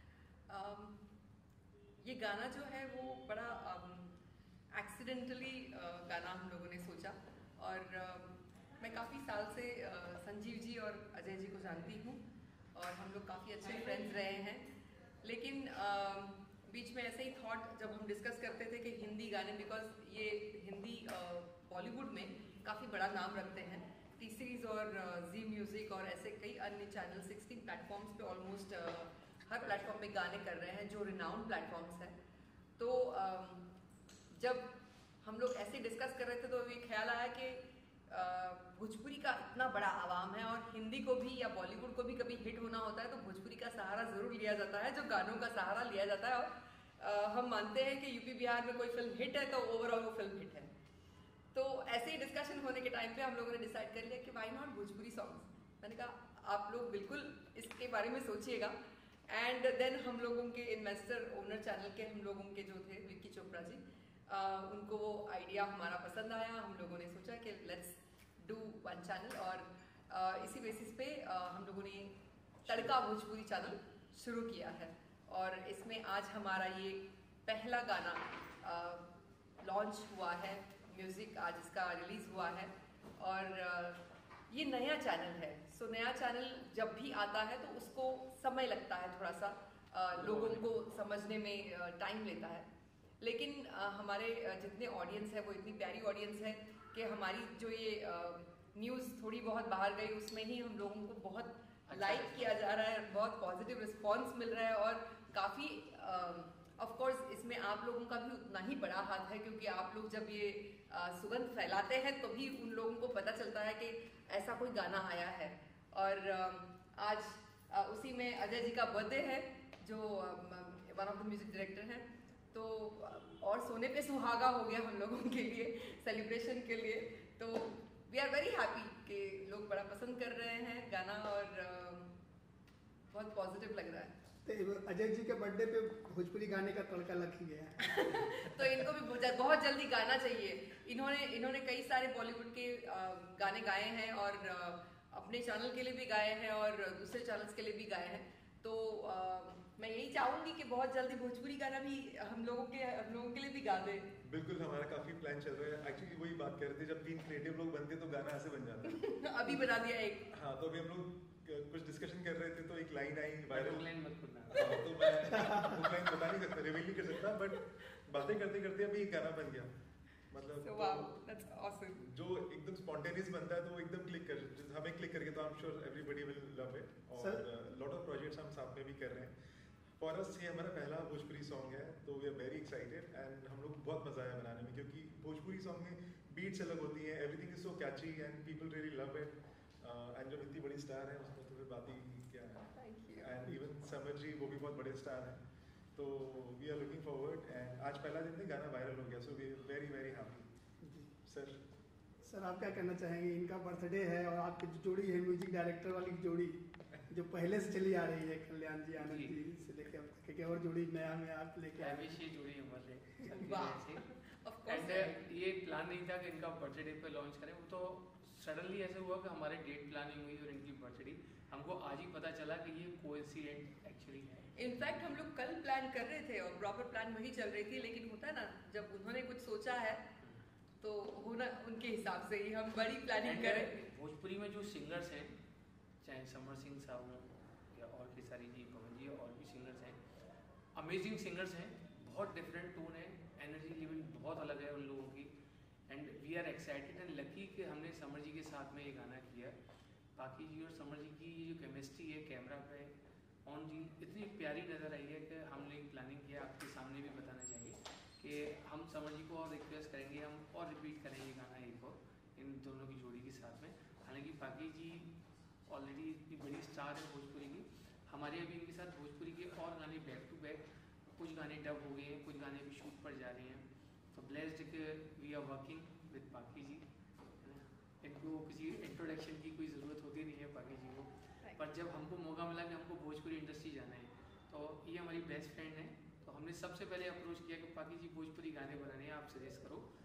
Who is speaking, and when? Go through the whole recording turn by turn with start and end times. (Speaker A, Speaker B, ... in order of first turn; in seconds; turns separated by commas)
Speaker A: 0.5-1.0, Speaker A: 2.0-4.1, Speaker A: 4.7-12.2, Speaker A: 12.7-14.7, Speaker A: 15.2-32.1, Speaker A: 32.8-33.7, Speaker A: 34.3-34.7, Speaker A: 35.2-50.7, Speaker A: 51.5-58.7, Speaker A: 59.3-79.1, Speaker A: 79.6-92.7, Speaker B: 90.2-90.7, Speaker A: 93.2-132.1, Speaker B: 101.9-102.6, Speaker A: 133.1-134.1, Speaker C: 134.4-138.0, Speaker A: 137.9-154.1, Speaker D: 154.2-159.1, Speaker A: 158.9-160.3, Speaker D: 160.3-163.9, Speaker B: 163.5-164.8, Speaker D: 164.5-169.7, Speaker D: 170.3-171.1, Speaker A: 170.6-172.0, Speaker D: 172.0-179.3, Speaker D: 180.0-195.4, Speaker A: 192.7-193.3, Speaker D: 195.9-200.5, Speaker C: 200.8-201.1, Speaker D: 201.2-201.6, Speaker C: 202.2-206.6, Speaker C: 207.1-212.1, Speaker B: 208.9-209.3, Speaker B: 211.8-214.0, Speaker A: 213.4-215.1, Speaker B: 214.7-224.5, Speaker A: 224.5-230.1, Speaker A: 230.8-233.7, Speaker B: 233.2-235.3, Speaker B: 236.0-240.0, Speaker B: 240.8-245.3, Speaker B: 245.9-249.6, Speaker B: 250.2-252.9, Speaker B: 253.4-265.1, Speaker B: 265.7-270.6, Speaker B: 271.1-276.8, Speaker B: 277.4-289.8, Speaker A: 281.4-281.7